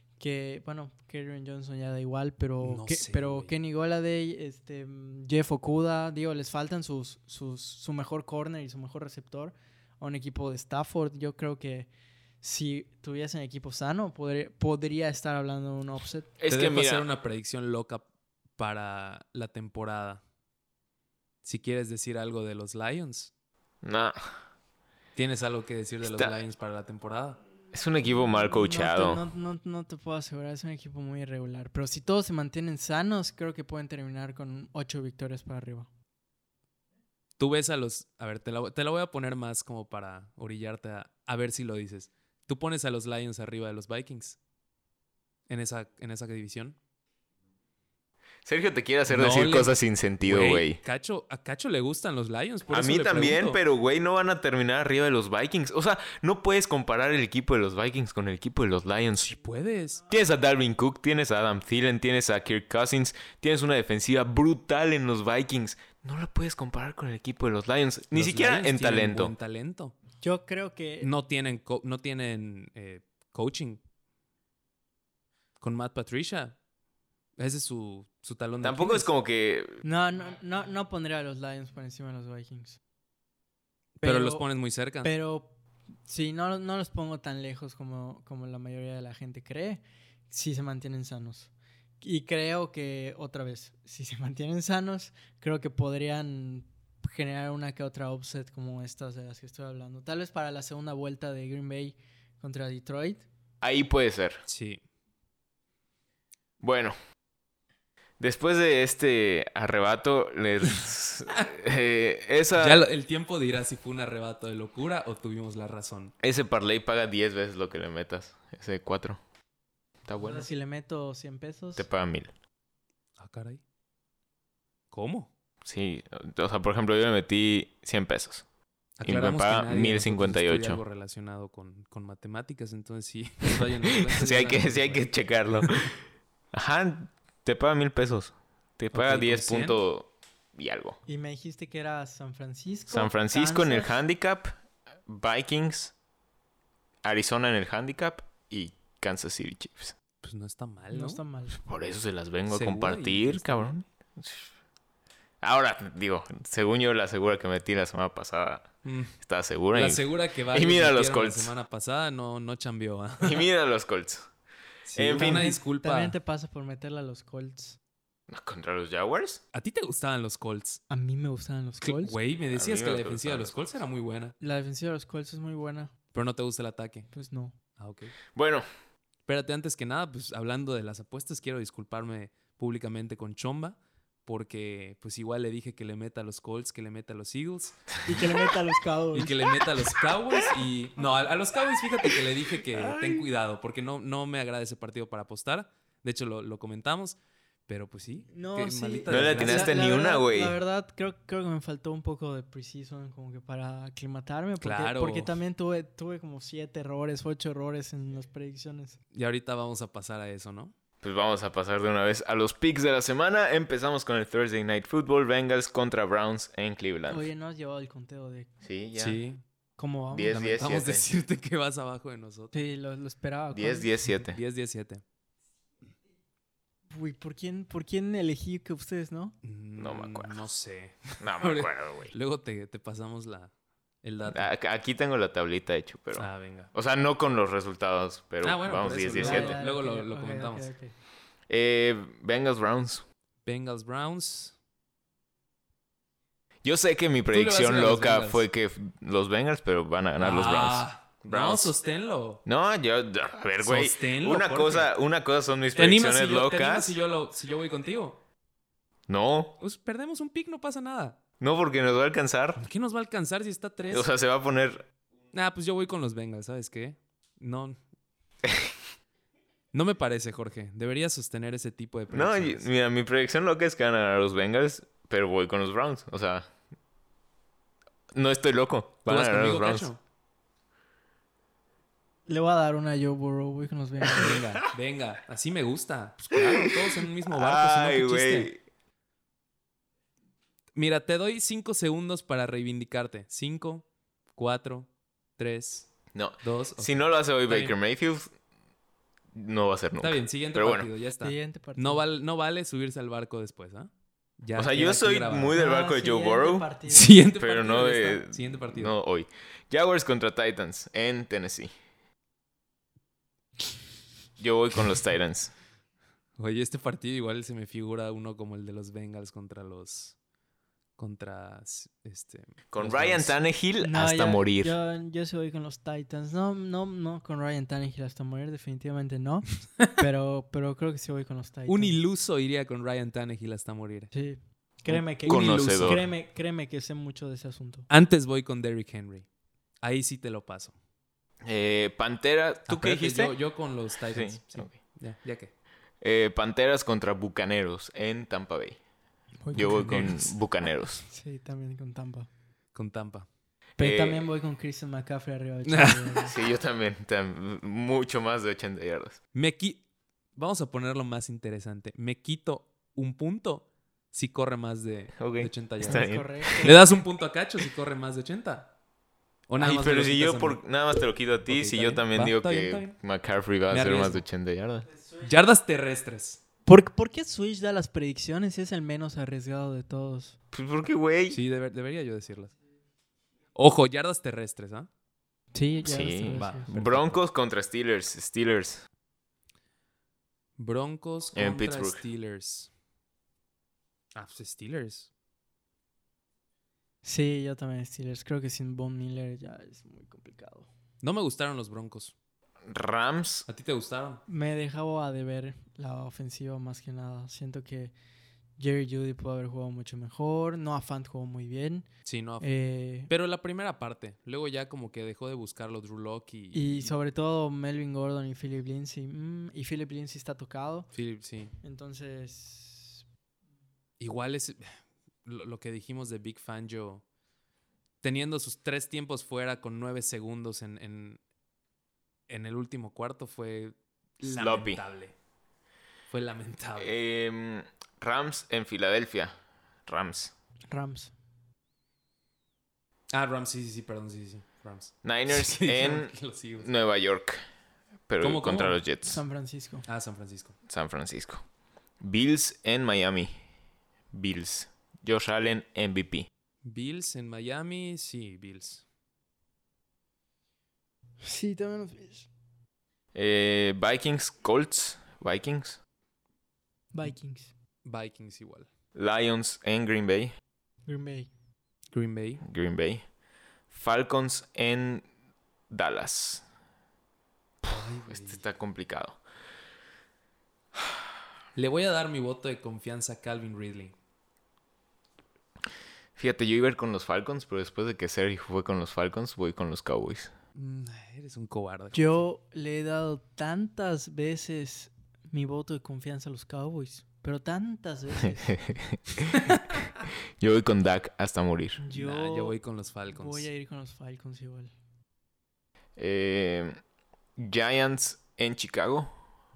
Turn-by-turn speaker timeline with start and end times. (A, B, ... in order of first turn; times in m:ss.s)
0:00.2-0:11.9 A
0:02.6-0:03.5 B
0:12.4-0:16.3 A
0:16.4-0:17.0 C
0:16.5-0:18.0 B
0:18.6-0:20.2 B
0:21.4-0:23.3 B
0:23.8-0:24.2 C
0:25.2-0:27.4 B
0:26.0-0:26.4 C
0:27.7-0:29.2 C
0:28.4-0:35.9 A
0:37.4-0:44.4 B
0:45.5-0:46.8 B
0:48.4-0:50.8 C
0:49.1-0:53.6 B
0:52.7-0:59.4 C
0:59.2-1:00.0 B
1:00.1-1:09.3 C
1:08.1-1:09.9 B
1:10.2-1:11.1 A
1:11.0-1:13.8 B
1:15.6-1:16.6 B
1:17.4-1:19.1 B
1:18.6-1:19.8 C
1:19.8-1:22.8 A
1:24.0-1:24.4 A
1:24.0-1:25.1 B
1:25.0-1:25.5 A
1:26.1-1:43.2 A
1:43.6-1:44.4 C
1:44.5-1:44.8 B
1:46.6-1:46.9 C
1:48.2-1:52.8 C
1:52.6-1:56.1 B
1:56.2-1:59.2 C
2:00.1-2:00.5 C
2:00.2-2:01.9 A
2:01.8-2:02.3 C
2:03.2-2:03.6 B
2:04.9-2:05.3 B
2:05.6-2:08.4 C
2:09.0-2:15.1 B
2:09.0-2:10.8 C
2:14.0-2:15.9 C
2:16.5-2:21.0 C
2:18.9-2:19.8 B
2:21.1-2:24.0 A
2:22.9-2:24.5 C
2:25.0-2:25.9 C
2:27.0-2:29.9 C
2:30.2-2:31.2 B
2:30.9-2:31.6 A
2:31.5-2:34.5 C
2:32.5-2:33.7 B
2:35.4-2:41.5 C
2:38.8-2:39.1 B
2:39.7-2:43.4 B
2:43.2-2:44.3 C
2:44.8-2:46.1 B
2:44.9-2:45.5 C
2:45.1-2:47.8 A
2:48.3-2:49.4 C
2:49.5-2:50.8 B
2:50.9-2:52.2 A
2:51.8-2:54.3 B
2:52.5-2:53.7 C
2:54.4-2:55.9 A
2:56.1-2:57.1 B
2:57.1-2:57.5 A
2:57.8-2:58.1 B
2:58.3-2:58.6 C
2:59.3-3:07.9 B
3:08.0-3:09.5 A
3:09.1-3:19.7 B
3:12.7-3:13.3 C
3:18.3-3:29.0 A
3:19.1-3:20.6 C
3:24.6-3:25.3 B
3:29.1-3:30.7 B
3:31.0-3:37.3 C
3:37.1-3:38.5 A
3:38.6-3:39.2 C
3:38.9-3:39.4 B
3:39.8-3:40.4 A
3:40.1-3:41.0 C
3:40.3-3:42.5 B
3:42.5-3:43.9 A
3:43.5-3:44.4 C
3:44.1-3:45.0 B
3:46.9-3:49.4 A
3:49.4-3:53.5 B
3:49.8-3:50.5 C
3:51.2-3:52.1 C
3:54.0-3:54.5 B
3:54.3-3:59.6 C
3:56.2-3:56.7 B
3:58.4-4:00.7 B
3:59.0-4:00.9 A
4:01.5-4:03.0 C
4:03.4-4:04.5 B
4:06.6-4:11.7 C
4:07.3-4:08.4 B
4:10.2-4:12.4 B
4:12.4-4:17.0 C
4:13.6-4:14.9 B
4:15.7-4:18.2 B
4:19.1-4:19.6 C
4:19.6-4:21.2 B
4:21.4-4:22.6 C
4:22.6-4:24.1 B
4:23.9-4:24.9 C
4:25.3-4:27.8 B
4:28.4-4:28.7 C
4:29.7-4:32.6 B
4:32.1-4:36.5 C
4:38.1-4:39.9 C
4:39.0-4:40.0 B
4:42.3-4:44.4 A
4:44.1-4:48.5 B
4:46.3-4:48.6 C
4:50.7-4:55.9 B
4:56.1-4:58.3 C
4:56.4-4:57.7 B
4:59.3-5:00.9 C
5:00.0-5:05.6 B
5:01.2-5:02.0 A
5:04.6-5:06.6 C
5:05.5-5:07.3 A
5:06.9-5:08.9 B
5:07.4-5:11.7 C
5:14.4-5:15.5 C
5:16.4-5:20.1 B
5:21.0-5:23.4 B
5:22.7-5:24.7 C
5:23.8-5:32.0 A
5:31.7-5:34.1 B
5:34.1-5:37.9 A
5:34.9-5:36.0 C
5:35.2-5:36.1 B
5:37.9-5:39.2 B
5:39.8-5:40.7 B
5:41.4-5:43.3 C
5:42.7-5:45.5 B
5:44.1-5:44.7 C
5:46.0-5:48.8 C
5:49.4-5:50.4 A
5:49.5-5:50.1 B
5:49.5-5:51.0 C
5:51.0-5:52.3 A
5:52.7-5:53.3 B
5:53.8-5:56.3 A
5:53.8-5:54.3 C
5:55.7-5:56.3 B
5:56.2-5:59.2 C
5:59.3-5:59.8 B
6:00.3-6:08.7 B
6:05.2-6:06.8 C
6:05.8-6:06.8 A
6:09.5-6:10.6 B
6:09.6-6:14.8 C
6:11.4-6:13.0 B
6:13.7-6:14.2 B
6:15.2-6:16.4 B
6:16.6-6:20.4 A
6:20.5-6:21.4 C
6:21.3-6:22.5 B
6:23.5-6:24.9 B
6:25.5-6:26.7 A
6:25.8-6:28.8 C
6:26.4-6:27.2 B
6:30.6-6:32.7 B
6:31.3-6:32.0 C
6:34.1-6:35.1 B
6:37.0-6:40.7 A
6:41.0-6:42.1 B
6:42.6-6:43.5 C
6:43.5-6:44.2 B
6:44.3-6:47.9 A
6:48.6-6:51.9 A
6:52.0-6:52.5 B
6:52.4-6:53.1 A
6:53.1-6:56.9 B
6:56.5-7:00.9 A
7:00.9-7:01.5 B
7:01.6-7:03.0 A
7:04.0-7:07.0 B
7:08.0-7:11.2 B
7:12.3-7:15.1 B
7:14.3-7:14.8 C
7:16.1-7:16.9 B
7:16.8-7:20.3 C
7:20.7-7:21.1 A
7:23.1-7:26.7 B
7:25.0-7:27.4 C
7:28.1-7:29.2 C
7:28.2-7:28.8 B
7:29.1-7:29.8 A
7:29.8-7:30.5 B
7:30.7-7:31.4 C
7:32.0-7:33.3 C
7:34.1-7:36.3 C
7:36.6-7:38.8 B
7:41.2-7:42.3 A
7:43.1-7:45.8 C
7:46.9-7:47.5 A
7:47.8-7:48.7 B
7:48.9-7:50.4 C
7:50.8-7:51.3 A
7:51.9-7:52.4 B
7:52.4-7:53.0 C
7:53.7-7:55.0 C
7:55.7-7:56.4 C
7:57.6-7:58.4 B
7:58.0-7:59.2 C
8:01.5-8:03.9 B
8:06.2-8:10.3 C
8:10.5-8:12.2 B
8:11.9-8:18.6 A
8:18.4-8:19.8 C
8:20.4-8:21.8 C
8:21.8-8:22.6 A
8:21.9-8:23.5 B
8:23.1-8:24.7 A
8:26.0-8:26.8 C
8:27.4-8:29.1 C